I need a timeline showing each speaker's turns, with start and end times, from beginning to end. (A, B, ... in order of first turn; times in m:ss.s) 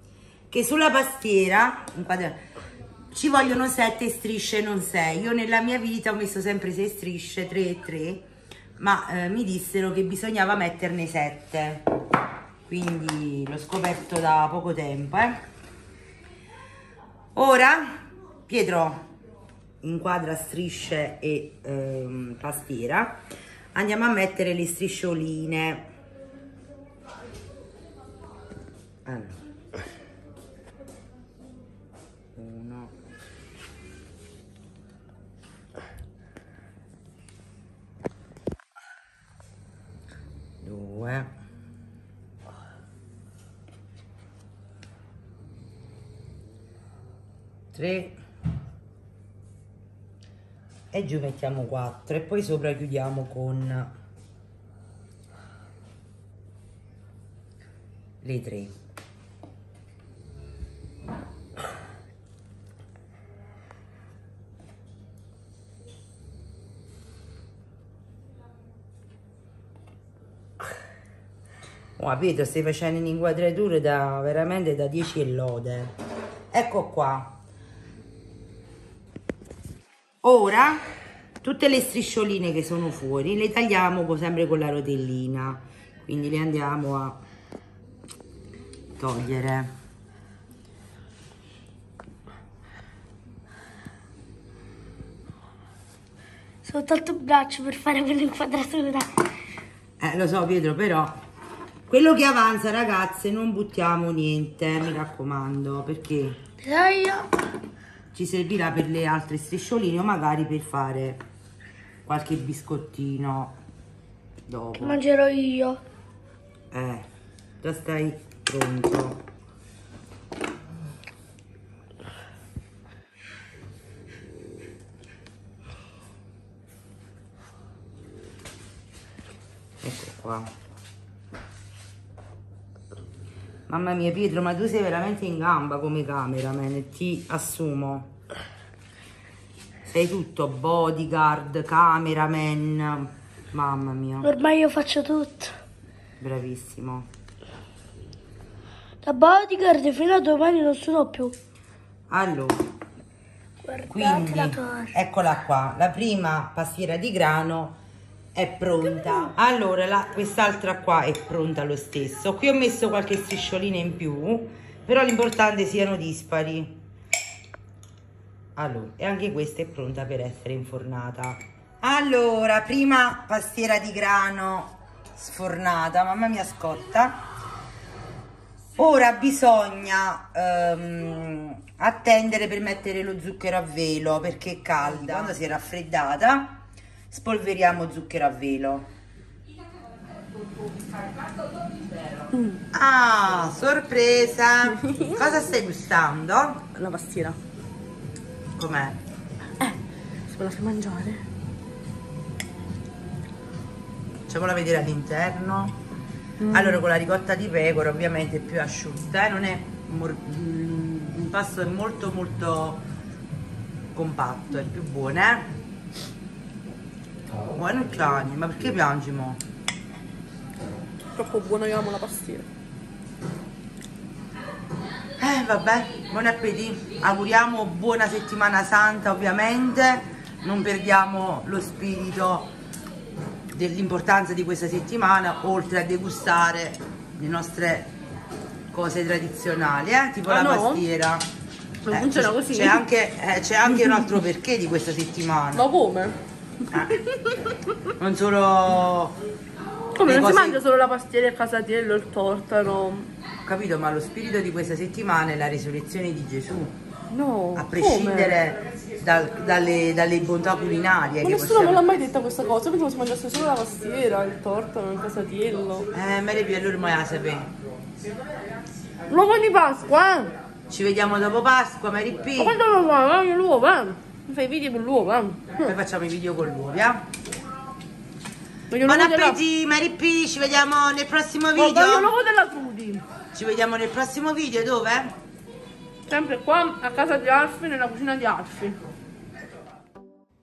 0:00.5-0:02.4 A
0:03.1-0:08.2 A
0:08.8-0:11.9 A
0:12.7-0:15.4 A
0:17.3-0:19.1 A
0:19.8-0:23.2 A
0:23.7-0:25.9 A
0:29.0-0:29.4 A
0:32.3-0:32.9 A
0:40.6-0:41.3 A
0:47.7-0:48.2 A
0:50.9-0:53.9 A
0:58.2-0:58.7 A
1:12.0-1:15.9 A
1:16.5-1:17.4 A
1:20.2-1:20.8 A
1:21.4-1:27.2 A
1:29.0-1:29.7 A
1:36.6-1:39.2 B
1:40.0-1:41.2 A
1:41.9-1:46.4 A
1:46.6-1:47.3 B
1:48.1-1:51.2 A
1:52.0-1:53.6 A
1:54.5-1:55.0 A
1:54.8-1:55.8 B
1:56.7-1:57.1 A
1:57.6-1:59.2 A
2:09.8-2:10.5 A
2:13.7-2:18.1 A
2:19.9-2:24.3 A
2:24.2-2:25.5 B
2:26.2-2:27.1 A
2:29.0-2:31.3 B
2:32.1-2:32.7 A
2:33.6-2:34.9 B
2:33.9-2:37.8 A
2:38.3-2:46.8 A
2:48.6-2:57.2 A
2:58.8-3:06.6 A
3:07.1-3:08.9 A
3:12.7-3:16.7 A
3:16.7-3:17.3 C
3:18.6-3:19.0 A
3:20.3-3:21.2 C
3:24.3-3:25.8 A
3:26.5-3:32.8 A
3:33.9-3:35.5 A
3:37.5-3:39.4 A
3:41.2-3:42.4 C
3:45.2-3:52.5 A
3:53.5-3:57.9 A
3:58.7-4:01.3 A
4:00.3-4:00.8 C
4:01.9-4:02.8 C
4:01.9-4:05.7 A
4:05.5-4:06.1 C
4:06.7-4:07.0 A
4:07.9-4:09.2 A
4:10.0-4:13.1 C
4:10.0-4:10.6 A
4:13.4-4:16.8 A
4:17.1-4:18.4 C
4:17.5-4:21.8 A
4:21.2-4:25.9 C
4:25.9-4:27.5 A
4:29.1-4:30.3 C
4:30.7-4:32.6 A
4:32.4-4:35.6 C
4:35.6-4:37.1 A
4:38.7-4:39.3 C
4:38.8-4:42.1 A
4:41.6-4:43.0 C
4:43.3-4:45.1 A
4:46.1-4:48.8 C